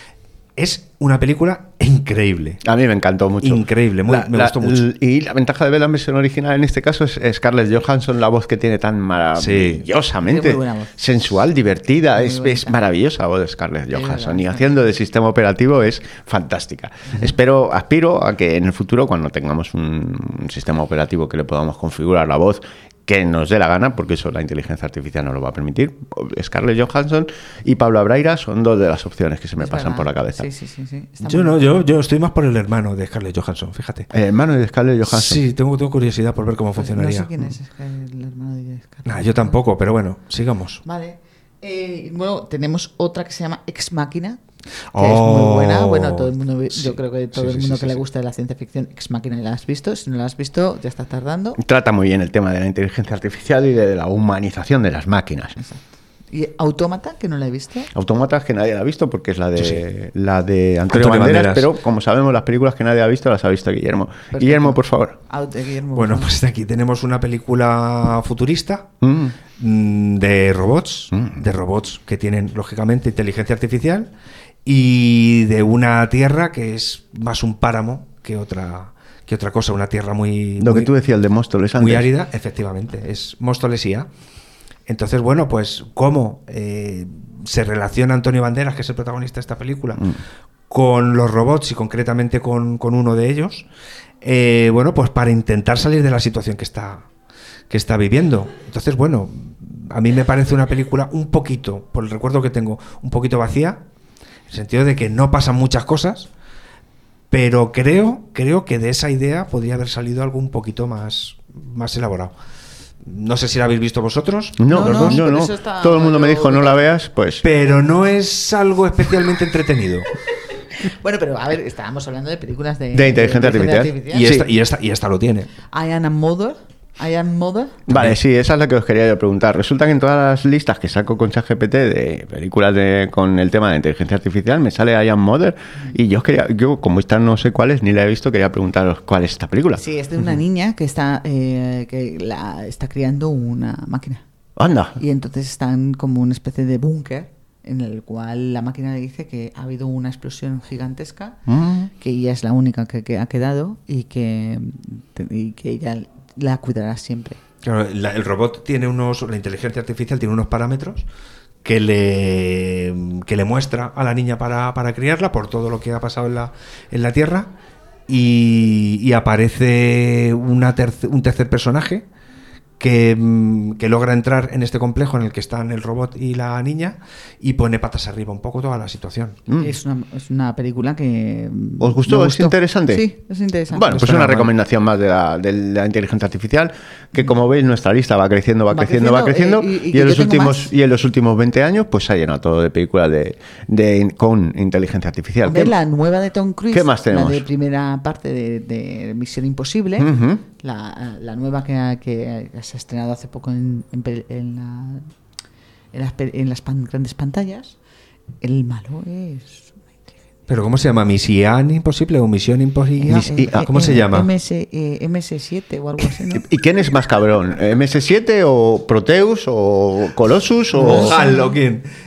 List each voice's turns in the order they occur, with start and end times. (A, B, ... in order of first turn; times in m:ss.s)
0:00.6-0:02.6 A
0:02.6-0:30.5 B
0:03.4-0:04.8 A
0:09.4-0:09.8 A
0:10.2-0:11.0 C
0:12.2-0:12.8 C
0:13.9-0:14.7 C
0:29.6-0:31.6 C
0:31.2-0:34.1 A
0:34.1-0:35.4 B
0:35.1-0:37.4 A
0:36.8-0:39.6 C
0:39.1-0:40.8 A
0:40.8-0:44.4 C
0:44.9-0:48.0 A
0:45.0-0:51.6 C
0:51.6-0:55.6 B
0:55.6-0:57.9 C
0:57.9-1:05.2 B
0:59.6-0:59.8 A
1:00.9-1:01.7 A
1:04.3-1:06.3 C
1:06.0-1:08.9 A
1:09.0-1:09.3 B
1:09.6-1:14.1 A
1:11.1-1:11.4 B
1:14.6-1:20.9 A
1:20.6-1:22.1 B
1:21.8-1:24.1 A
1:24.9-1:30.0 A
1:30.7-1:33.6 A
1:34.2-1:37.1 A
1:37.7-1:43.8 A
1:44.5-1:46.3 A
1:47.3-1:52.3 A
1:53.0-1:55.2 A
1:54.6-1:57.4 B
1:54.7-1:56.8 C
1:57.4-2:00.1 A
2:00.8-2:04.3 C
2:02.9-2:04.5 B
2:04.1-2:05.5 A
2:05.7-2:07.8 C
2:07.9-2:19.8 B
2:19.8-2:24.2 C
2:24.6-2:25.0 B
2:25.0-2:31.4 C
2:31.5-2:31.9 B
2:32.0-2:37.4 C
2:37.6-2:41.1 A
2:41.6-2:47.5 A
2:48.1-2:52.0 A
2:52.8-2:59.4 A
2:59.5-2:59.7 B
2:59.6-3:04.1 C
3:01.8-3:03.1 B
3:03.7-3:15.8 B
3:03.9-3:04.5 A
3:08.7-3:10.7 C
3:15.4-3:25.1 C
3:16.7-3:17.5 B
3:20.0-3:20.4 B
3:25.9-3:27.8 C
3:28.4-3:30.2 C
3:30.5-3:34.3 A
3:33.0-3:36.4 C
3:33.1-3:33.9 B
3:36.3-3:41.2 B
3:40.8-3:41.6 C
3:40.8-3:41.8 A